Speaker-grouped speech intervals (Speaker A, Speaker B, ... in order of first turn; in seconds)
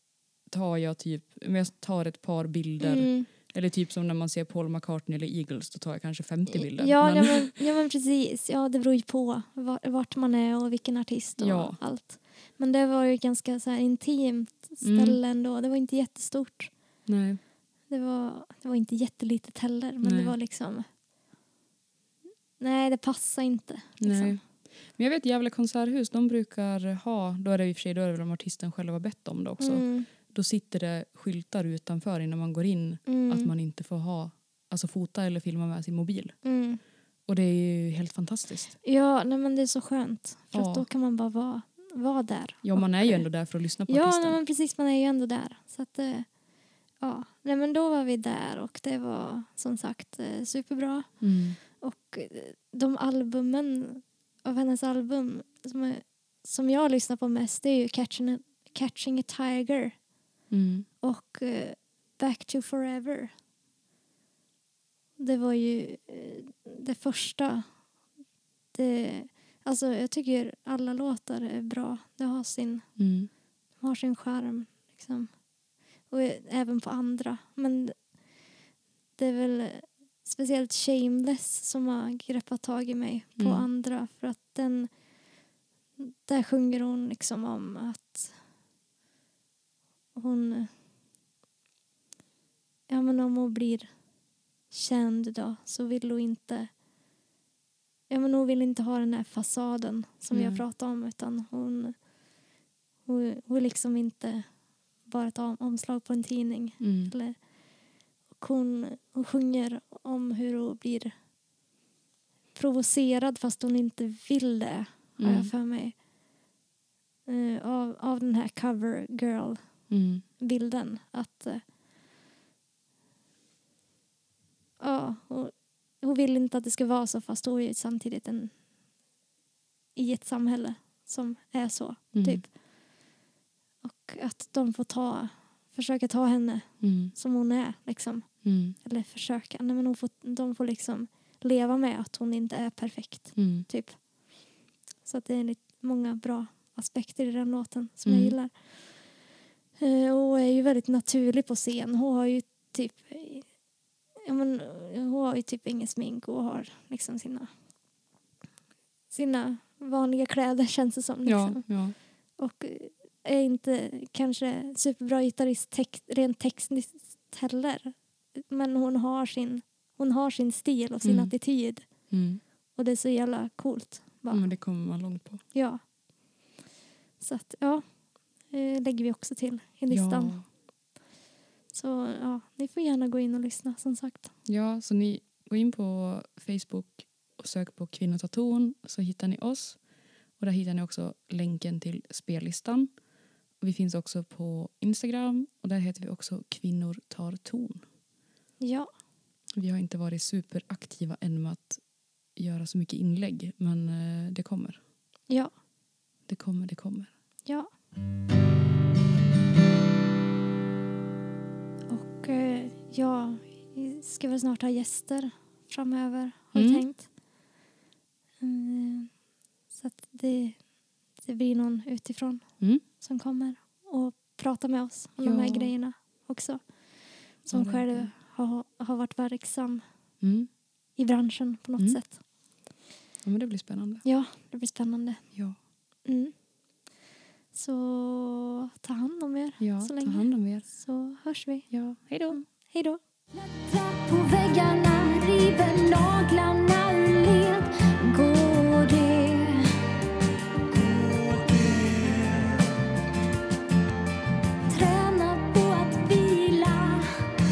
Speaker A: 0.5-7.5, 11.4-11.8, 14.8-15.2, 17.1-17.4, 20.0-20.3, 24.0-24.4, 24.9-36.3, 37.3-38.7, 40.5-40.9, 42.6-44.4, 51.2-51.6, 60.5-60.9, 73.0-73.3, 83.4-83.7, 100.3-100.6, 106.8-107.1, 115.2-115.5, 119.9-120.2, 132.1-132.4, 136.8-137.1, 138.4-138.8, 143.4-143.7, 148.0-148.3, 161.2-161.9, 171.0-171.3, 172.1-172.4, 174.3-175.4, 179.9-180.4, 184.5-189.8, 190.4-192.9, 193.6-197.8, 199.6-201.8, 202.3-204.8, 206.3-207.1, 216.5-216.8, 225.2-225.7, 227.5-228.1, 230.2-230.5, 233.2-234.0, 239.6-240.7, 241.7-242.4
Speaker B: 2.8-3.3, 6.6-16.7, 17.9-20.9, 22.6-24.4, 29.6-30.1, 33.1-33.5, 36.4-36.8, 38.8-43.2, 43.9-46.3, 47.0-51.1, 51.8-60.0, 61.0-63.3, 65.2-67.7, 68.7-72.9, 73.8-75.3, 76.1-78.0, 79.2-84.9, 86.0-88.3, 90.1-90.7, 92.9-93.9, 94.7-96.7, 98.1-102.0, 103.0-104.5, 105.0-107.4, 108.4-111.1, 112.5-115.9, 117.2-119.6, 120.4-121.6, 124.8-128.5, 129.9-132.5, 133.8-138.3, 138.8-144.0, 145.0-148.9, 149.8-153.5, 154.2-157.5, 159.1-161.6, 162.4-171.9, 172.8-174.5, 175.5-175.8, 177.2-177.8, 178.5-180.4, 181.7-184.3, 198.6-198.9, 211.9-217.1, 218.4-219.1, 219.7-220.6, 221.2-222.4, 222.9-226.6, 227.4-229.8, 231.0-232.2, 234.0-235.2, 236.1-236.3, 237.5-241.7, 242.3-243.0
Speaker C: 243.3-249.7, 250.7-252.5, 254.7-257.1